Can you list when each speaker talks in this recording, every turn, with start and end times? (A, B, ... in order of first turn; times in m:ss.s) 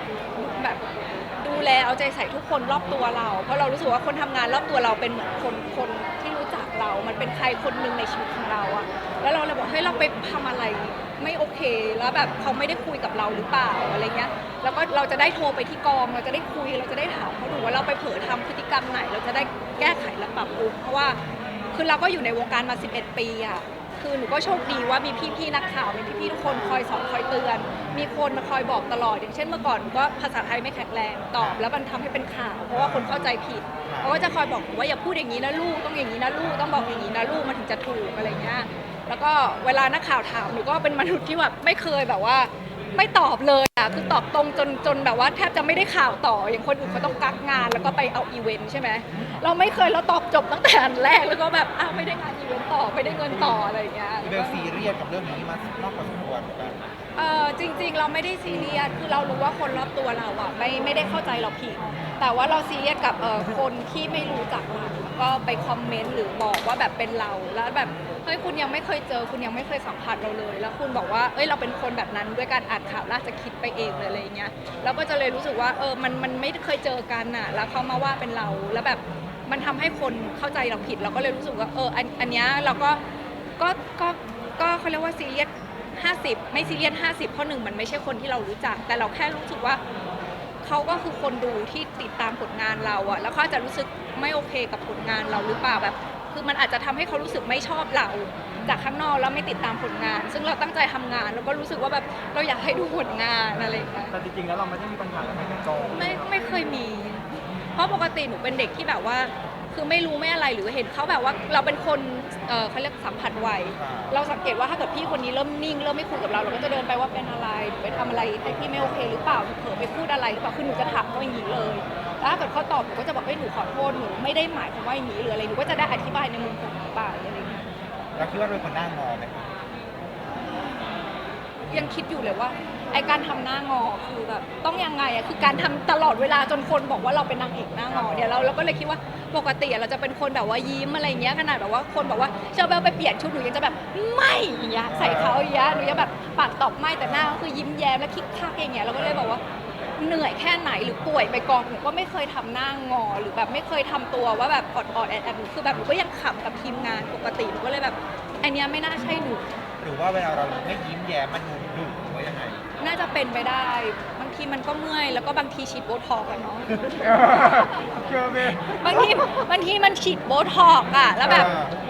0:00.3-0:21.2 A
0:21.2-0:21.5 B
0:21.7-0:54.6 A
0:26.4-0:26.8 B
0:31.4-0:31.6 B
0:32.7-0:33.2 B
0:33.9-0:34.2 B
0:46.8-0:47.2 B
0:49.1-0:49.4 B
0:54.2-0:56.8 B
0:57.2-1:23.0 A
1:01.9-1:02.2 B
1:23.6-1:29.8 A
1:30.6-1:44.1 A
1:44.1-1:46.3 C
1:45.9-1:47.2 A
1:47.8-2:07.7 A
1:53.7-1:54.2 B
2:08.2-2:09.5 B
2:11.7-2:29.4 A
2:24.9-2:25.4 B
2:30.0-2:39.4 A
2:39.8-2:42.6 B
2:42.8-2:46.7 A
2:47.5-2:47.7 A
2:48.1-2:48.6 C
2:48.7-2:51.6 A
2:51.2-2:51.8 B